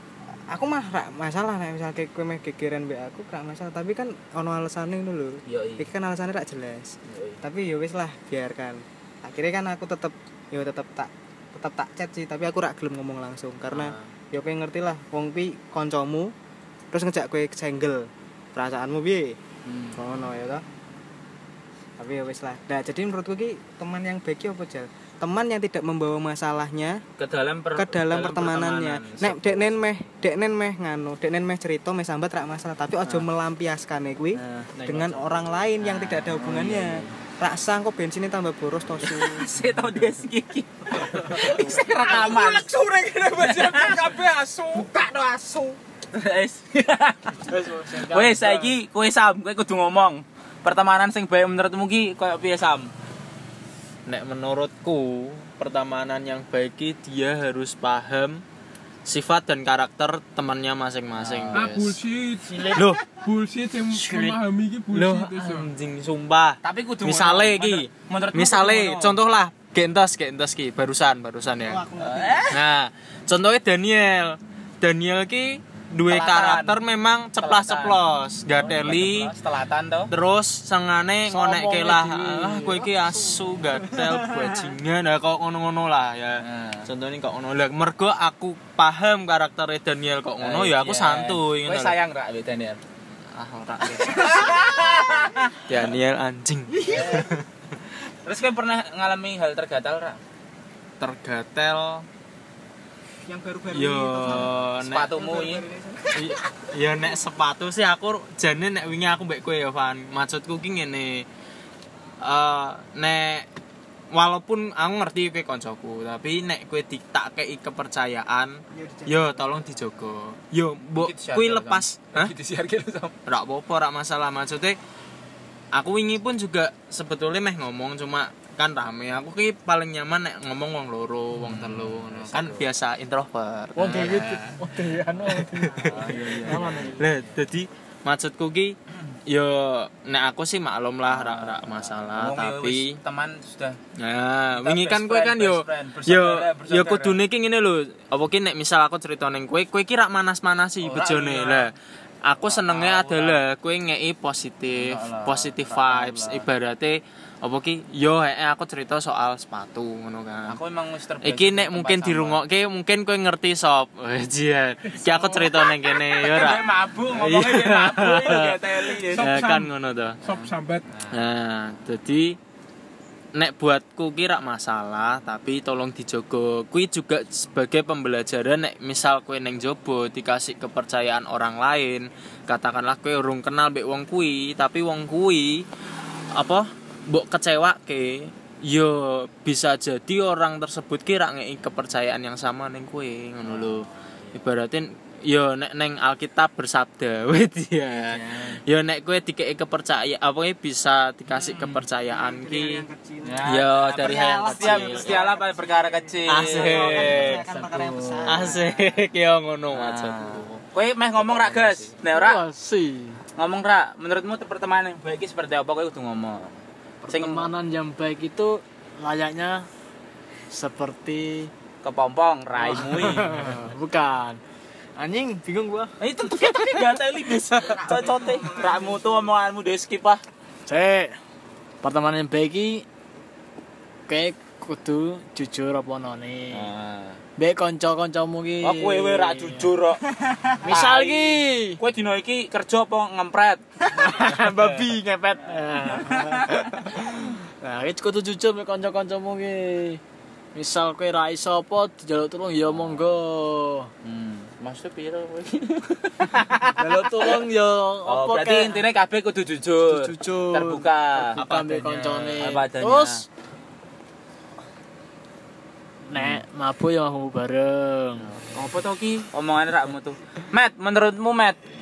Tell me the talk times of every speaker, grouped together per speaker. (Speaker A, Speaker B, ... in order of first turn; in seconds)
Speaker A: 0.5-16.3, 16.9-19.3, 19.9-20.6, 22.0-27.0, 27.7-39.5, 44.7-45.8, 71.6-72.5, 96.9-97.1, 103.2-104.5, 105.1-106.3, 118.7-119.5, 202.0-209.0, 227.6-229.3
Speaker B: 5.5-5.9, 7.1-7.4, 13.7-14.1, 19.6-20.0, 27.2-30.0, 34.3-37.1, 39.0-42.7, 43.4-44.2, 46.1-52.9, 61.1-61.7, 66.6-69.2, 72.0-72.6, 76.1-76.8, 77.4-78.0, 78.5-80.1, 86.4-86.9, 90.4-92.8, 94.0-95.5, 96.8-97.3, 98.2-100.2, 104.8-105.6, 121.0-123.1, 131.3-132.7, 135.8-137.3, 141.1-143.8, 144.6-147.2, 150.8-151.7, 152.4-153.4, 154.7-156.5, 160.5-162.4, 164.9-169.4, 170.2-171.2, 193.4-194.5, 198.1-198.6, 201.3-201.8, 203.2-208.5, 209.7-212.4, 213.3-217.5, 221.8-223.3, 226.0-230.2, 236.5-237.2, 238.6-243.6, 245.9-246.6, 252.7-253.0, 254.0-257.3, 258.1-261.4, 262.4-263.2, 266.1-266.4, 268.2-271.6
Speaker C: 41.3-44.9, 61.5-65.7, 169.0-169.7, 170.2-170.8
Speaker D: 47.5-48.7, 81.2-84.1, 133.8-137.0, 206.9-208.4, 212.1-213.2, 217.0-219.7, 220.5-221.5, 222.6-224.4, 225.0-225.9, 230.7-231.2, 231.8-232.8, 234.1-236.7, 237.4-239.7, 240.6-241.8, 243.9-250.0, 250.5-253.9, 256.8-258.8, 259.8-263.2, 266.1-268.3
Speaker E: 54.0-58.4, 59.0-62.0, 62.7-63.0, 64.9-71.8, 72.5-79.3, 80.1-92.0, 93.3-97.4, 101.0-102.0, 103.7-105.1, 106.1-111.2, 112.2-113.5, 114.1-122.3, 123.2-124.8, 125.7-134.6, 135.2-138.8, 139.3-143.0, 144.0-151.7, 152.2-160.6, 161.2-170.2, 171.1-172.4, 173.3-185.6, 186.3-202.8, 203.4-205.3, 206.2-207.4, 208.2-210.6, 211.2-211.9, 261.4-262.4